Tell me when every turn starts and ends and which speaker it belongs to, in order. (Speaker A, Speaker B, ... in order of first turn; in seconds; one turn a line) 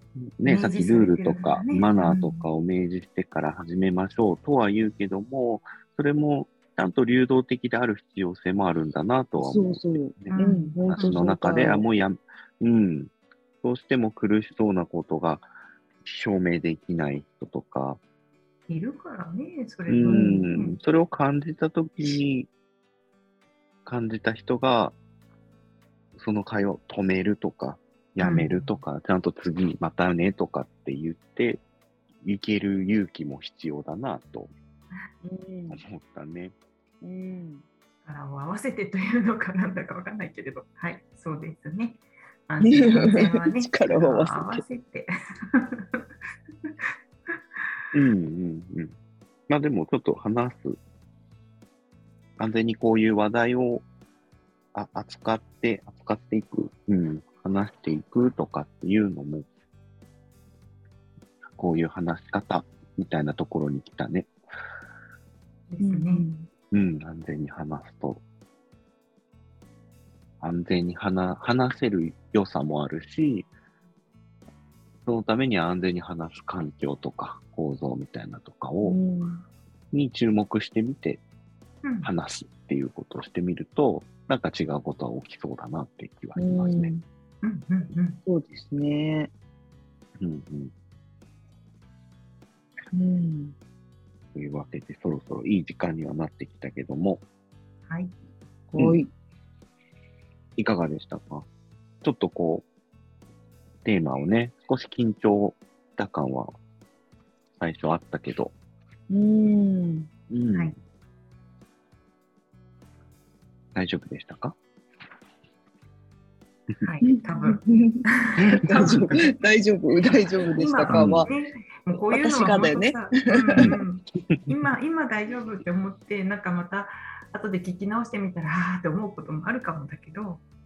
Speaker A: 0.2-15.5
Speaker B: 0.4-2.5
Speaker C: 9.4-11.8
Speaker B: 10.3-11.2
Speaker A: 16.0-18.0
Speaker B: 18.7-20.8
Speaker A: 19.9-22.5
Speaker C: 20.1-20.6
Speaker A: 23.9-24.9
Speaker A: 26.1-31.6
Speaker B: 28.2-28.8
Speaker A: 32.2-34.5
Speaker C: 35.2-35.8
Speaker A: 35.7-36.5
Speaker C: 37.0-37.6
Speaker B: 38.0-46.0
Speaker C: 42.6-44.6
Speaker A: 47.9-48.9
Speaker A: 49.5-50.8
Speaker A: 52.4-53.8
Speaker A: 54.7-59.5
Speaker A: 61.5-64.3
Speaker B: 65.7-66.3
Speaker C: 65.8-66.5
Speaker A: 66.7-68.2
Speaker A: 70.4-73.5
Speaker A: 75.0-79.0
Speaker C: 78.8-79.4
Speaker A: 79.9-81.2
Speaker B: 81.8-82.1
Speaker A: 82.0-86.9
Speaker C: 86.4-87.0
Speaker B: 87.4-88.2
Speaker C: 88.2-89.3
Speaker A: 90.2-90.7
Speaker C: 92.9-93.5
Speaker A: 94.3-97.2
Speaker B: 97.9-98.1
Speaker C: 98.7-99.1
Speaker A: 100.6-101.5
Speaker A: 102.0-102.7
Speaker A: 103.8-106.5
Speaker A: 107.6-108.5
Speaker C: 109.1-110.1
Speaker A: 110.3-110.7
Speaker A: 113.7-114.5
Speaker B: 116.8-119.3
Speaker C: 117.0-118.0
Speaker A: 118.4-119.1
Speaker C: 118.6-121.3
Speaker B: 120.6-130.4
Speaker A: 120.9-121.3
Speaker C: 121.9-123.8